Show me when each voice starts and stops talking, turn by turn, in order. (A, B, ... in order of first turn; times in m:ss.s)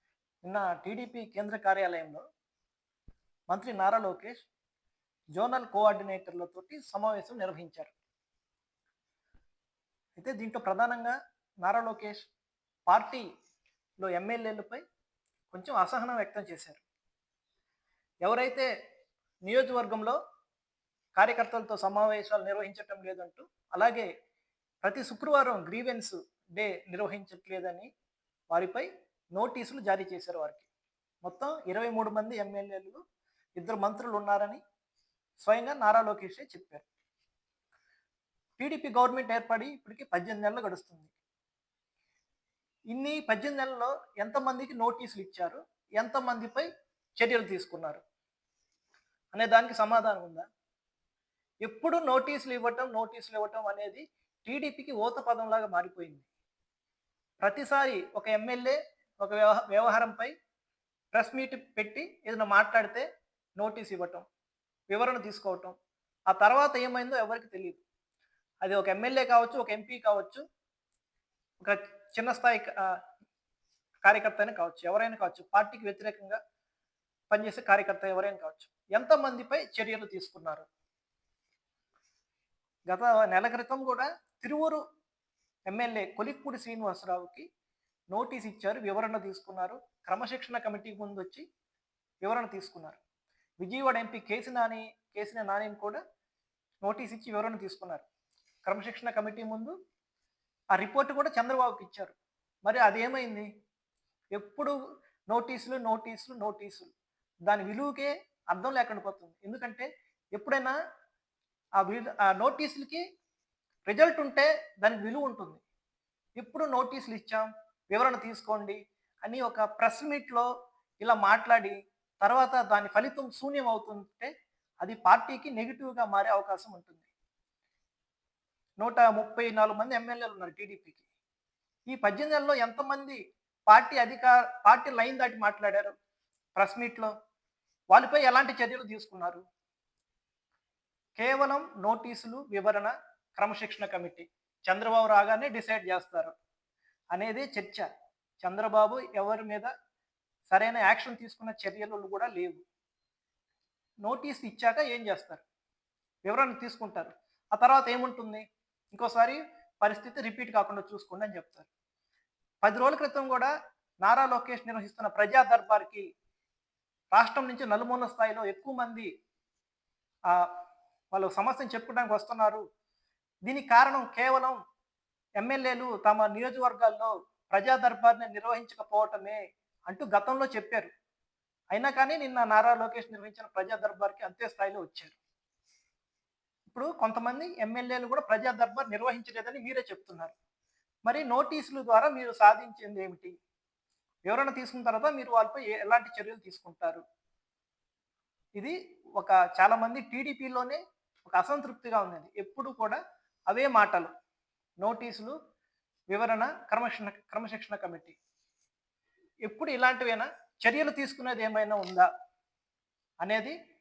0:00.4-0:02.2 A
0:03.5-0:04.4 A
0:05.3-0:07.9 A
0:10.2-0:12.3 A
0:12.9-0:13.2 A
0:14.0-0:14.8 A
0:15.5-0:16.8 A
0:18.2-0:18.7 A
0:19.4-0:20.2 A
0:21.2-0:24.1 A
0:24.8-0:27.9 A
0:28.5-0:30.7 A
0:31.2-0:33.0 A
0:33.6-0:34.6 A
0:35.4-0:36.8 A
0:38.6-0:41.1 A
0:42.9-0:46.7 A
0:47.2-0:48.0 A
0:49.3-0:50.4 A
0:51.6-0:56.3 A
0:57.4-1:00.3 A
1:01.1-1:03.0 A
1:03.6-1:04.2 A
1:04.9-1:05.7 A
1:06.3-1:07.8 A
1:08.6-1:10.4 A
1:11.6-1:12.8 A
1:14.0-1:16.4 A
1:17.3-1:20.6 A
1:22.9-1:24.8 A
1:25.7-1:27.4 A
1:28.1-1:31.4 A
1:32.2-1:33.0 A
1:33.6-1:36.0 A
1:36.8-1:38.0 A
1:38.6-1:39.7 A
1:40.7-1:42.1 A
1:42.6-1:43.5 A
1:44.4-1:44.7 A
1:45.3-1:46.9 A
1:47.4-1:50.7 A
1:51.8-1:53.0 A
1:53.9-1:55.6 A
1:56.4-2:00.4 A
2:01.0-2:04.3 A
2:04.8-2:07.1 A
2:08.8-2:11.0 A
2:11.9-2:15.9 A
2:16.6-2:17.1 A
2:17.9-2:19.4 A
2:21.2-2:26.3 A
2:27.1-2:27.9 A
2:28.4-2:29.7 A
2:30.5-2:32.6 A
2:34.0-2:35.4 A
2:36.2-2:41.7 A
2:42.6-2:46.0 A
2:47.1-2:49.1 A
2:51.1-2:52.6 A
2:53.4-2:54.6 A
2:55.4-3:00.9 A
3:01.7-3:05.2 A
3:06.7-3:10.3 A
3:11.0-3:13.3 A
3:14.3-3:17.0 A
3:18.6-3:24.1 A
3:24.8-3:25.3 A
3:26.1-3:28.2 A
3:29.4-3:32.1 A
3:33.2-3:33.5 A